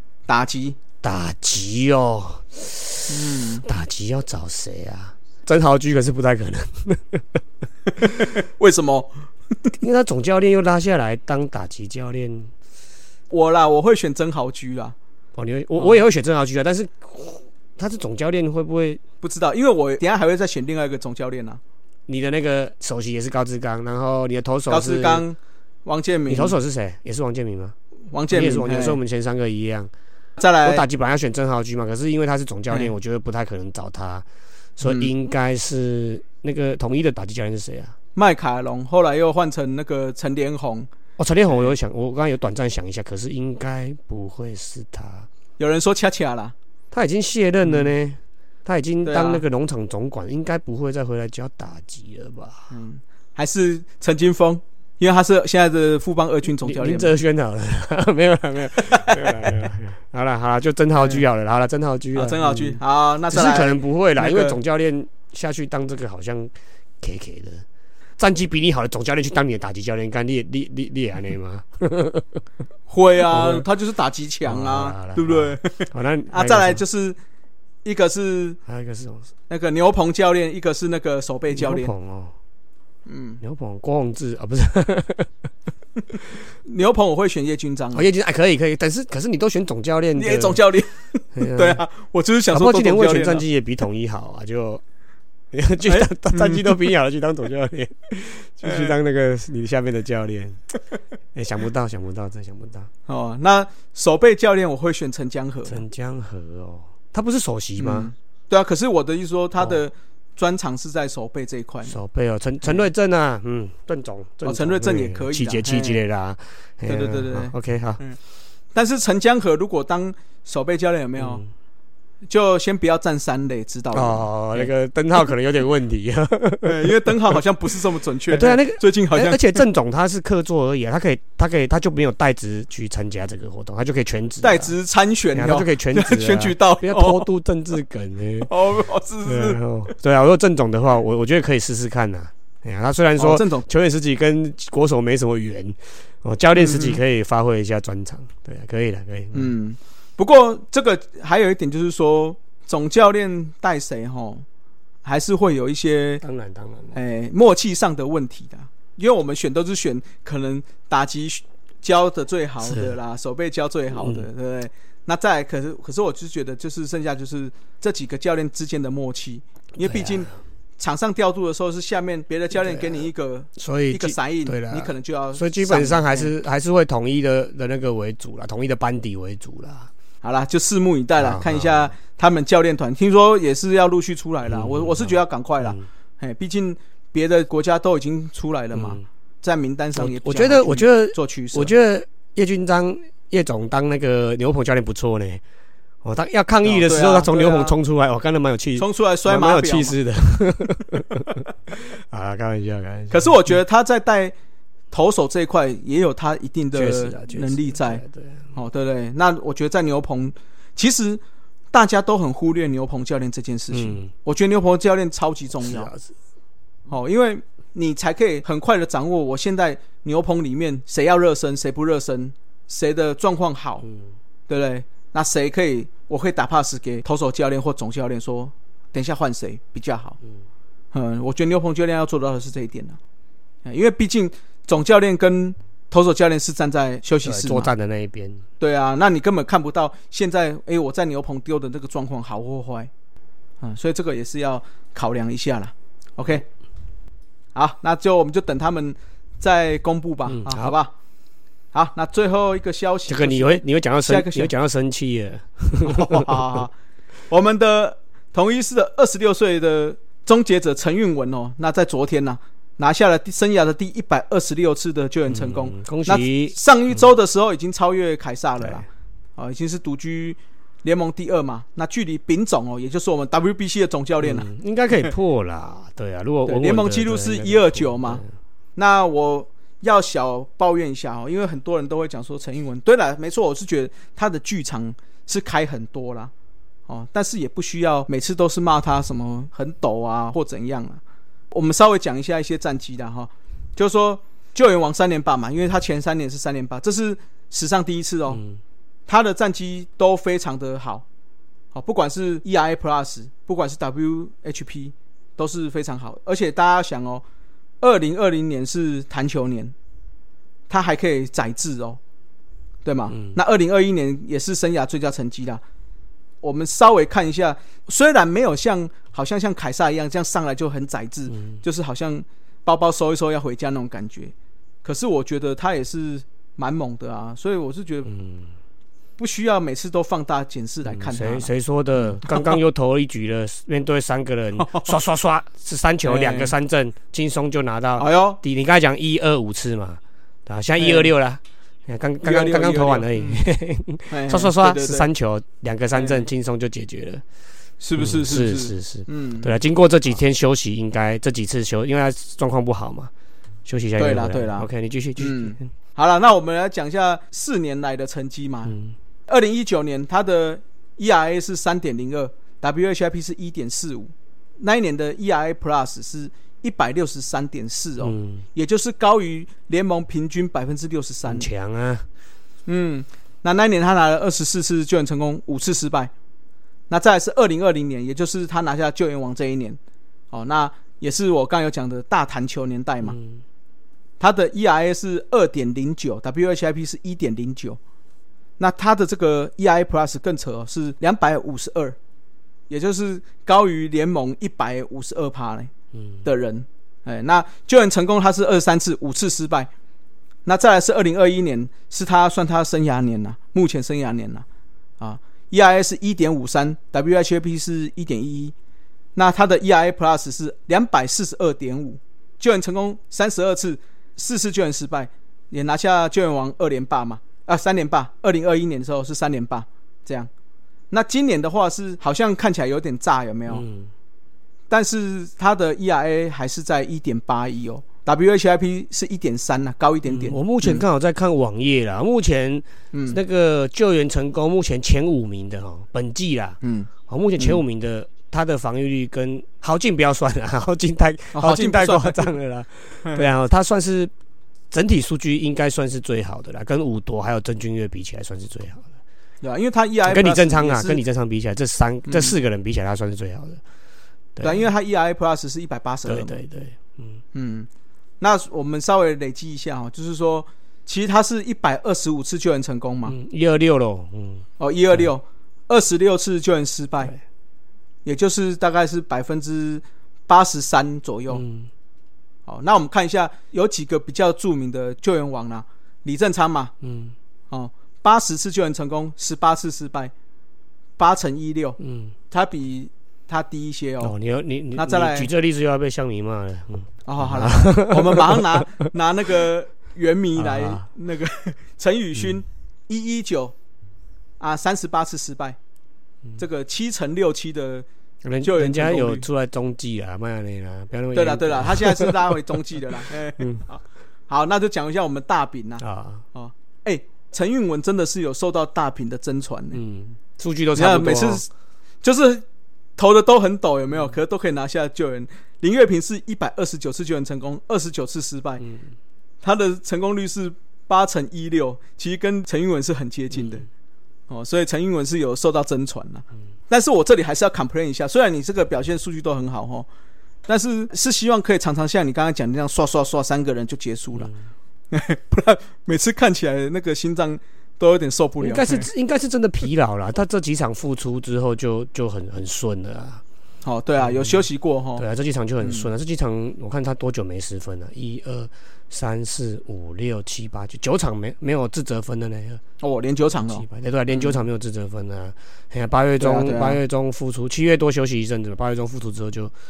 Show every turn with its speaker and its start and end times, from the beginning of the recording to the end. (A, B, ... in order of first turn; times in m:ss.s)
0:00.3-0:00.8 A
0:01.0-0:07.4 B
0:03.1-0:03.6 A
0:08.2-0:09.1 A
0:09.8-0:12.5 B
0:13.3-0:14.9 A
0:15.4-0:19.0 B
0:19.2-0:21.6 A
0:22.1-0:25.2 B
0:24.7-0:26.5 A
0:26.3-0:27.7 B
0:28.1-0:29.0 A
0:28.3-0:29.9 B
0:30.4-0:30.8 A
0:30.6-0:34.2 B
0:34.8-0:37.9 B
0:34.8-0:35.1 A
0:38.1-0:40.9 A
0:41.2-0:45.3 B
0:45.6-0:46.5 A
0:46.9-0:52.7 B
0:47.6-0:47.9 A
0:49.0-0:49.4 A
0:52.7-0:57.1 A
0:56.6-1:07.6 B
0:58.9-0:59.3 A
1:01.0-1:01.2 A
1:02.1-1:04.6 A
1:08.2-1:12.3 B
1:12.9-1:17.2 A
1:13.3-1:13.6 B
1:14.4-1:16.8 B
1:17.8-1:18.6 A
1:18.6-1:19.3 B
1:19.5-1:21.9 A
1:21.5-1:22.3 B
1:23.0-1:23.4 A
1:23.4-1:25.3 B
1:26.6-1:28.1 A
1:27.9-1:30.6 B
1:30.1-1:33.4 A
1:31.3-1:31.8 B
1:32.5-1:34.8 B
1:35.5-1:40.6 B
1:35.8-1:36.7 A
1:38.6-1:38.9 A
1:41.3-1:42.9 B
1:43.1-1:45.8 A
1:45.7-1:48.1 B
1:47.8-1:52.0 A
1:51.9-1:58.0 B
1:54.4-1:56.0 A
1:56.8-1:58.2 A
1:58.7-2:01.4 A
2:01.2-2:01.5 B
2:02.3-2:04.7 A
2:03.9-2:07.1 B
2:06.6-2:09.6 A
2:08.3-2:14.7 B
2:14.4-2:17.2 A
2:15.3-2:18.5 B
2:18.4-2:19.6 A
2:19.2-2:29.5 B
2:23.2-2:23.6 A
2:26.6-2:27.0 A
2:29.3-2:34.4 A
2:35.0-2:36.2 A
2:36.2-2:37.0 B
2:36.9-2:56.3 A
2:42.6-2:42.9 B
2:43.9-2:44.3 B
2:49.8-2:50.3 B
2:52.7-2:53.0 B
2:53.6-2:59.9 B
3:00.2-3:11.7 A
3:01.2-3:01.9 B
3:04.5-3:05.8 B
3:08.7-3:09.0 B
3:09.9-3:15.4 B
3:16.0-3:21.4 B
3:16.6-3:17.8 A
3:18.8-3:20.0 A
3:22.0-3:23.3 B
3:23.1-3:24.3 A
3:24.9-3:28.0 A
3:26.7-3:28.4 B
3:28.5-3:35.9 A
3:33.7-3:34.1 B
3:35.6-3:36.1 B
3:36.9-3:43.8 A
3:44.5-3:50.2 A
3:50.9-3:53.0 A
3:53.6-3:57.7 A
3:57.2-3:58.4 B
3:58.6-4:02.9 A
4:03.6-4:06.4 A
4:07.5-4:10.9 A
4:10.3-4:10.7 B
4:11.7-4:14.5 A
4:13.1-4:16.4 B
4:15.8-4:16.7 A
4:17.3-4:34.5 A
4:25.3-4:26.5 B
4:34.2-4:38.3 B
4:36.4-4:38.2 A
4:38.8-4:46.3 A
4:46.9-4:51.0 A
4:51.5-4:58.4 A
4:58.3-4:58.6 B
4:59.1-5:01.0 A
5:01.7-5:07.2 A
5:07.8-5:09.7 A
5:10.7-5:12.0 A
5:12.8-5:15.6 A
5:13.1-5:13.4 B
5:16.4-5:28.1 A
5:28.1-5:28.5 B
5:29.2-5:32.6 A
5:30.8-5:47.2 B
5:34.6-5:34.9 A
5:36.0-5:36.5 A
5:38.0-5:38.4 A
5:40.8-5:41.1 A
5:42.2-5:43.4 A
5:44.1-5:45.1 A
5:45.9-5:46.2 A
5:47.8-5:49.5 A
5:48.0-5:53.1 B
5:53.6-5:55.7 B
5:54.0-5:58.8 A
5:58.7-5:58.9 B
5:59.3-6:11.5 A
6:08.0-6:08.4 B
6:11.2-6:12.1 B
6:12.6-6:16.1 A
6:16.9-6:19.8 A
6:20.3-6:23.2 A
6:23.0-6:23.4 B
6:24.2-6:27.8 A
6:28.6-6:32.0 A
6:32.7-6:35.7 A
6:36.2-6:39.7 A
6:40.4-6:44.4 A
6:45.0-6:48.5 A
6:49.1-7:00.3 A
7:00.9-7:03.6 A
7:03.5-7:03.9 B
7:04.7-7:10.8 A
7:10.1-7:24.1 B
7:12.9-7:13.2 A
7:16.6-7:17.6 A
7:21.3-7:22.3 A
7:24.7-7:28.9 B
7:29.4-7:31.0 A
7:30.0-7:33.6 B
7:32.0-7:32.3 A
7:34.4-7:34.6 B
7:34.4-7:36.4 A
7:36.0-7:37.2 B
7:37.3-7:37.7 A
7:38.2-7:43.2 A
7:43.1-7:45.0 B
7:44.6-7:47.1 A
7:48.0-7:51.4 A
7:51.3-7:51.7 B
7:52.5-7:56.7 A
7:56.8-7:57.1 B
7:57.5-8:00.1 A
8:01.0-8:01.8 A
8:01.8-8:02.1 B
8:02.3-8:04.1 A
8:04.0-8:08.6 B
8:04.7-8:05.3 A
8:07.0-8:13.5 A
8:10.4-8:10.9 B
8:14.4-8:15.6 A
8:16.4-8:17.8 A
8:18.2-8:22.3 B
8:18.4-8:19.2 A
8:21.1-8:29.8 A
8:25.8-8:26.2 B
8:29.7-8:31.4 B
8:30.7-8:31.5 A
8:32.0-8:32.4 A
8:33.0-8:38.6 A
8:38.6-8:38.9 B
8:39.4-8:43.7 A
8:43.3-8:43.6 B
8:44.3-8:49.9 A
8:50.5-8:54.3 A
8:54.9-8:58.9 A
8:58.4-9:03.2 B
9:03.6-9:05.0 A
9:04.0-9:04.4 B
9:05.0-9:12.6 B
9:05.6-9:05.9 A
9:12.8-9:14.4 A
9:13.5-9:19.5 B
9:16.2-9:16.8 A